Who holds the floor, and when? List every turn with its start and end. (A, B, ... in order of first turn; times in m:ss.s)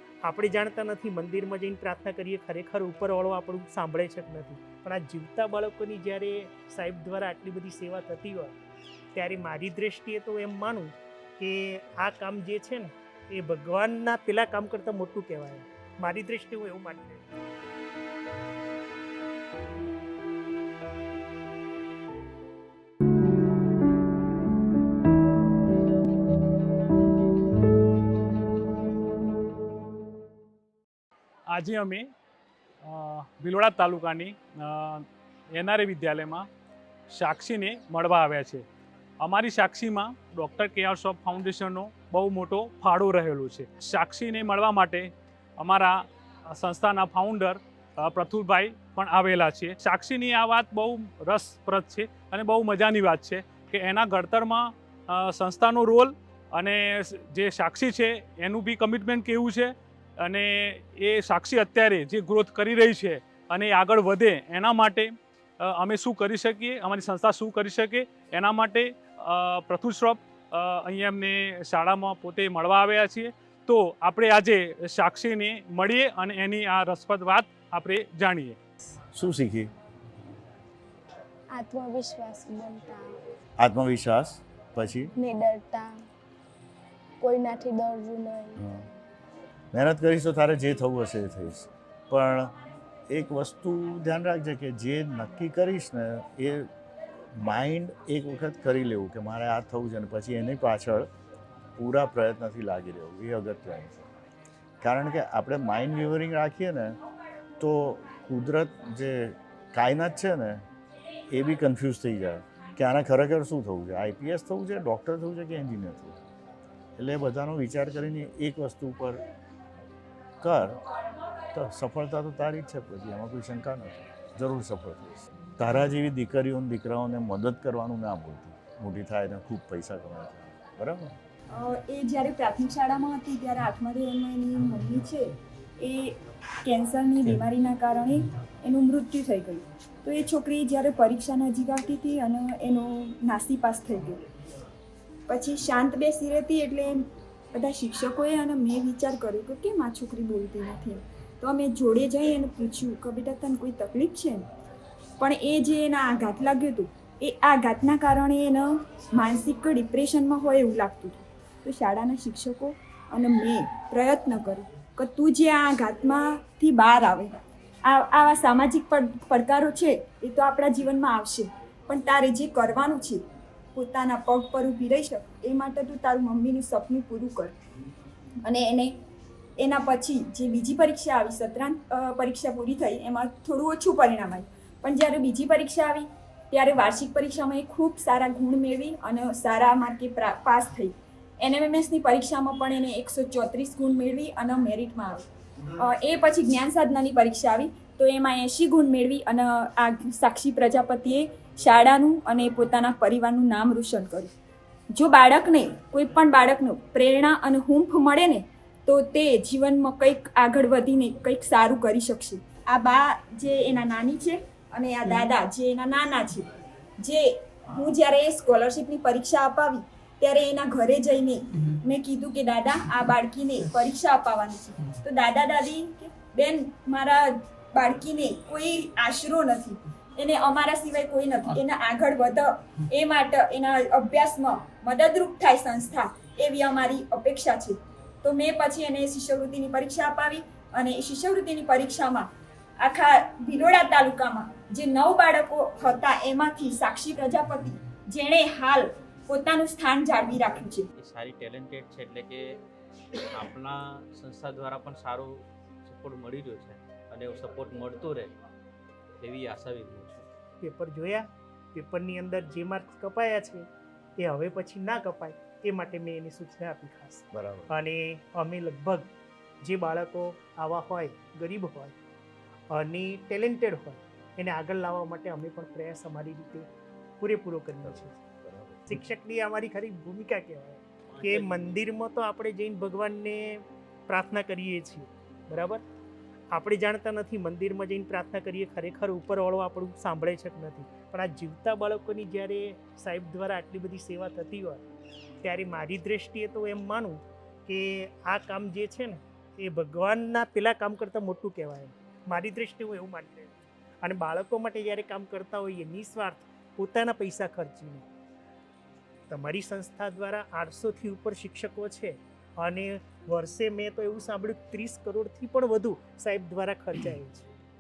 0:00.2-0:08.5 A
0:09.1-0:17.2 A
0:31.5-0:32.1 B
0:32.8-0:36.5 B
0:37.1-0:38.6 B
0:39.2-0:46.0 B
0:46.5-1:18.6 B
1:19.1-1:19.7 C
1:21.6-1:23.1 D
1:23.6-1:25.1 C
1:25.2-1:26.0 D
1:27.2-1:28.6 D
1:28.6-1:28.8 C
1:29.7-1:32.5 C
1:33.1-1:36.7 C
1:37.4-1:41.1 C
1:41.8-1:44.0 C
1:44.8-1:47.0 C
1:47.6-1:50.6 C
1:51.3-1:56.2 C
1:57.0-1:59.2 C
2:00.4-2:00.8 C
2:01.5-2:11.1 C
2:11.5-2:24.2 E
2:25.3-2:27.0 E
2:27.5-2:34.4 E
2:35.2-2:53.2 E
2:53.7-2:57.5 E
2:58.4-2:59.0 E
2:59.6-3:15.2 E
3:15.8-3:24.3 E
3:24.9-3:36.5 E
3:37.0-4:02.3 E
4:02.8-4:10.9 E
4:11.0-4:12.6 F
4:13.3-4:18.3 F
4:19.2-4:20.3 F
4:20.6-4:29.1 A
4:27.3-4:27.7 C
4:29.6-4:32.0 A
4:32.7-4:36.7 A
4:37.2-4:38.2 A
4:37.8-4:39.0 C
4:38.9-4:45.8 A
4:41.2-4:41.7 F
4:46.5-4:54.8 A
4:55.4-5:08.1 A
5:09.3-5:17.4 A